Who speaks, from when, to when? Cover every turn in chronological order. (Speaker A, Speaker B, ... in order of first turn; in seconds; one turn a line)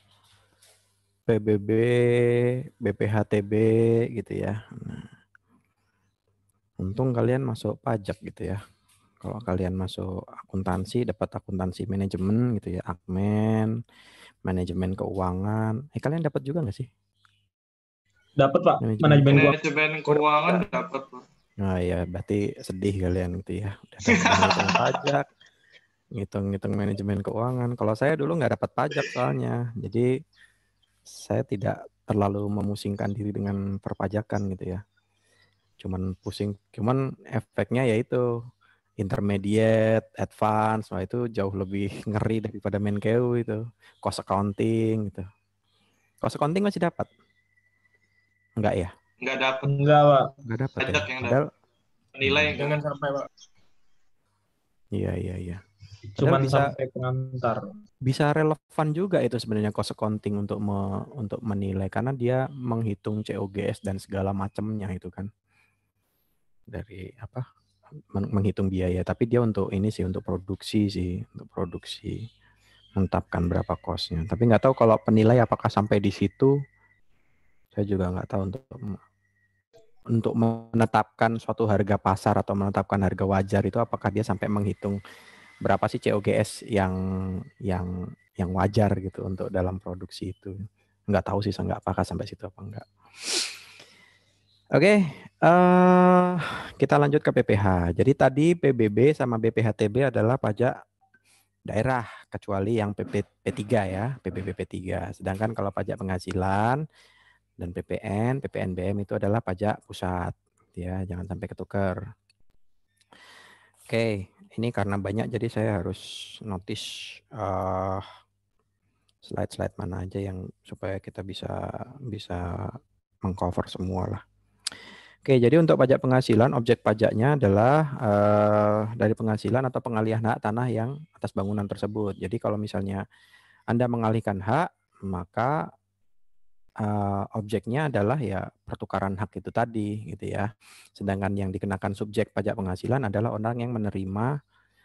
Speaker A: 1.3-5.1
Speaker A: 6.8-8.6
Speaker A: 9.2-13.7
Speaker A: 14.4-16.9
Speaker B: 18.4-19.6
Speaker A: 18.8-19.5
Speaker C: 19.3-21.2
Speaker A: 21.6-25.2
Speaker C: 24.1-25.0
Speaker A: 26.1-30.1
Speaker A: 31.1-34.8
Speaker A: 35.8-38.2
Speaker A: 39.0-45.2
Speaker A: 46.2-47.1
Speaker A: 48.6-48.9
Speaker C: 49.2-49.7
Speaker B: 49.6-50.3
Speaker A: 50.5-51.5
Speaker C: 50.8-51.4
Speaker C: 52.1-52.8
Speaker A: 52.2-52.6
Speaker B: 52.5-53.3
Speaker A: 54.9-55.6
Speaker B: 56.1-57.7
Speaker A: 56.2-56.7
Speaker A: 58.0-65.3
Speaker A: 66.7-67.4
Speaker A: 68.1-72.2
Speaker A: 73.0-76.5
Speaker A: 77.8-79.0
Speaker A: 80.1-85.0
Speaker A: 85.6-87.0
Speaker A: 87.7-90.5
Speaker A: 91.1-93.5
Speaker A: 94.7-100.7
Speaker A: 101.7-106.8
Speaker A: 107.6-112.0
Speaker A: 113.9-118.0
Speaker A: 119.3-124.2
Speaker A: 125.2-133.0
Speaker A: 133.7-135.6
Speaker A: 136.8-140.5
Speaker A: 141.0-144.3